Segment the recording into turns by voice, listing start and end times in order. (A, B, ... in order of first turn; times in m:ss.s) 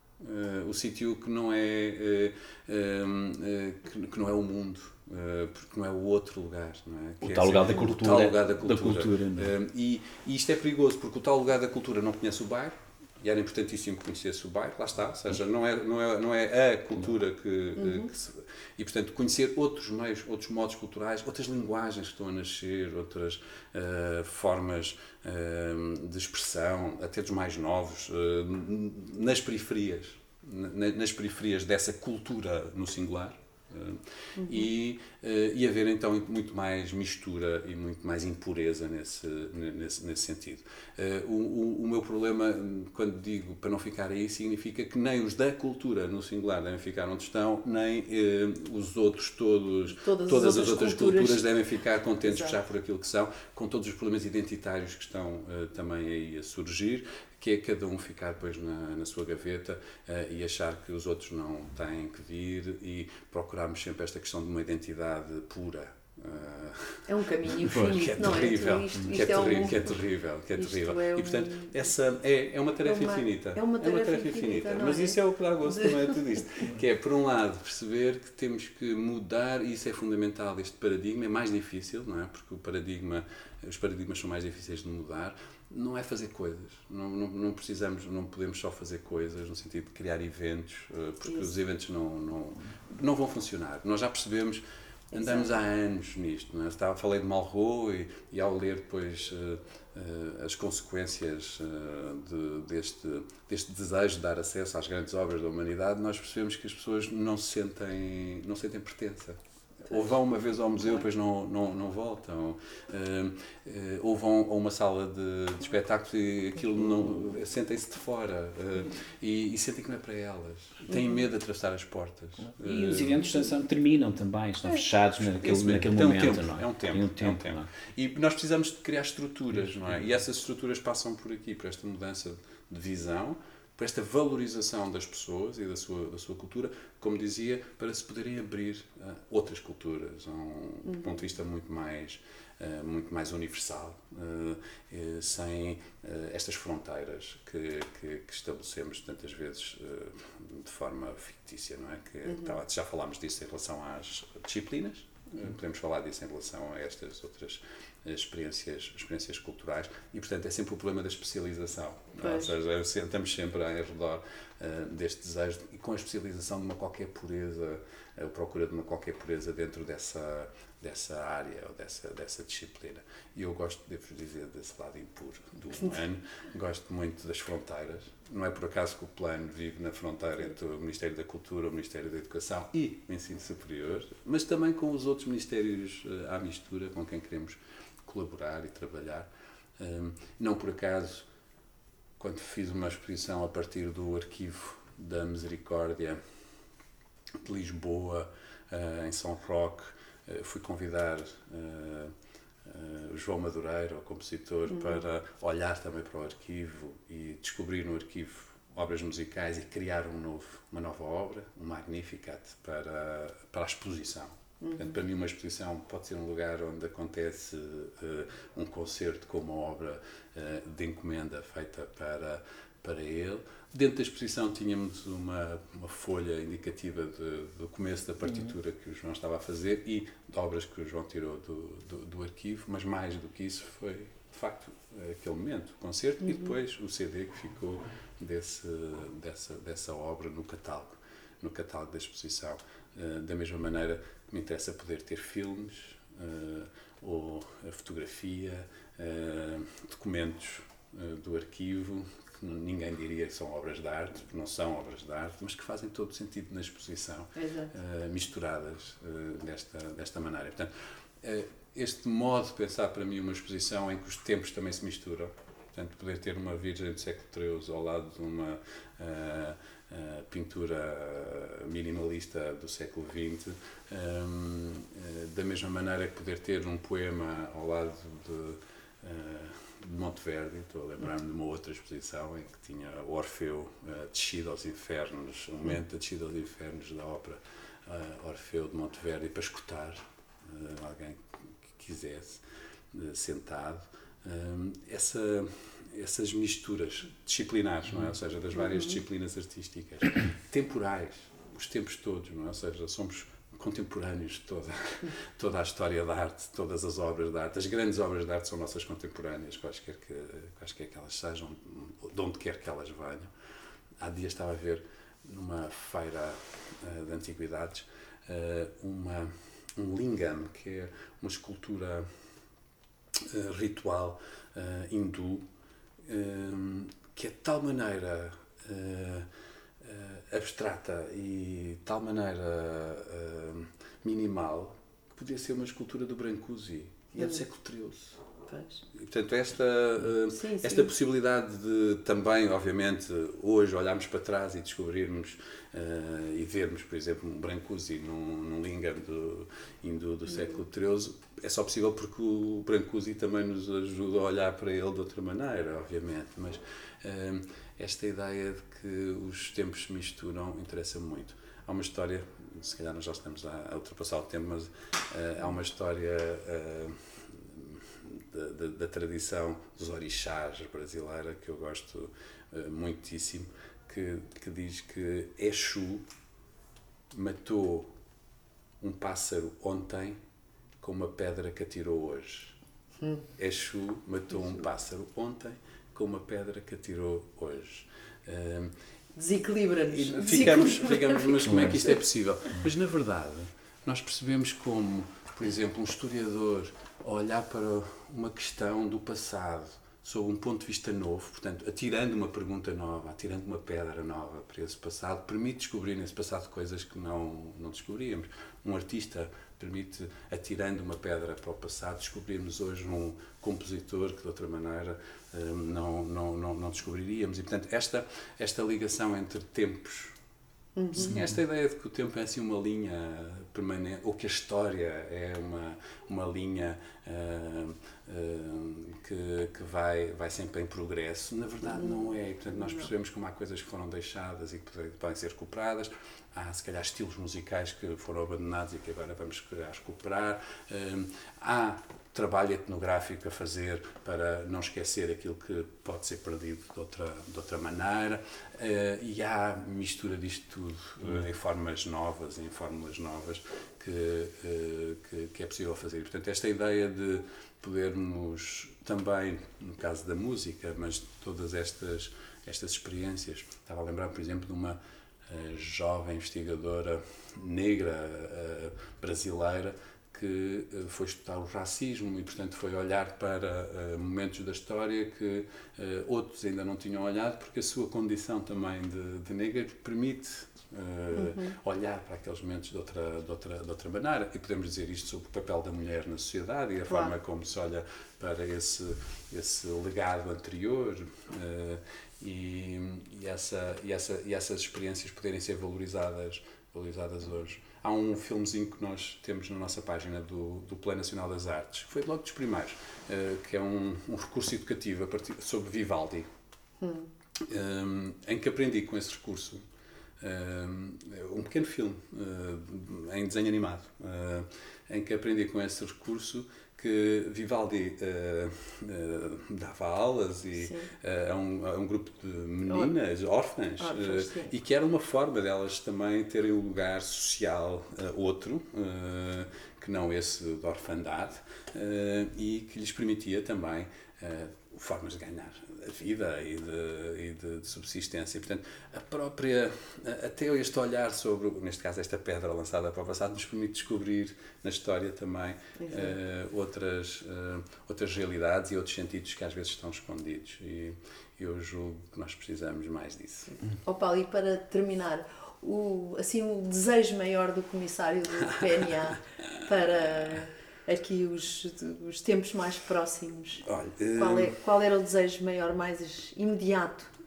0:00.2-2:03.2 A
0:07.2-0:09.5 B
0:17.8-0:18.1 C
0:34.4-0:34.7 C
0:50.0-0:51.5 C
0:52.3-0:52.5 C
1:07.1-1:09.9 C
1:10.5-1:11.7 C
1:12.8-1:15.2 C
1:35.1-1:35.5 C
2:02.6-2:07.7 B
2:05.2-3:11.3 A
2:32.3-2:32.5 C
2:42.2-2:42.5 C
3:12.2-3:16.2 A
3:17.4-3:22.1 A
3:22.6-4:20.7 A
3:34.6-3:34.9 C
4:17.4-4:17.7 C
4:21.2-5:13.3 A
5:14.0-5:22.1 A
5:23.1-5:25.4 A
5:26.0-5:29.3 A
5:29.8-5:38.2 A
5:38.5-5:38.8 C
5:38.9-6:16.1 A
5:40.3-5:40.9 C
6:17.1-6:17.9 A
6:18.8-6:20.2 A
6:20.8-6:22.6 A
6:23.4-6:28.7 A
6:29.2-6:31.6 C
6:29.9-7:00.2 A
6:31.4-6:31.8 B
7:00.8-7:01.2 C
7:00.9-8:26.3 A
7:11.6-7:12.9 C
8:01.1-8:01.6 C
8:06.9-8:07.1 C
8:26.8-8:27.1 C
8:27.4-8:29.6 A
8:30.2-9:13.6 A
8:40.6-8:40.9 C
8:43.8-8:44.5 C
9:05.8-9:06.2 C
9:13.8-9:27.1 C
9:18.4-9:18.9 A
9:23.6-9:24.6 A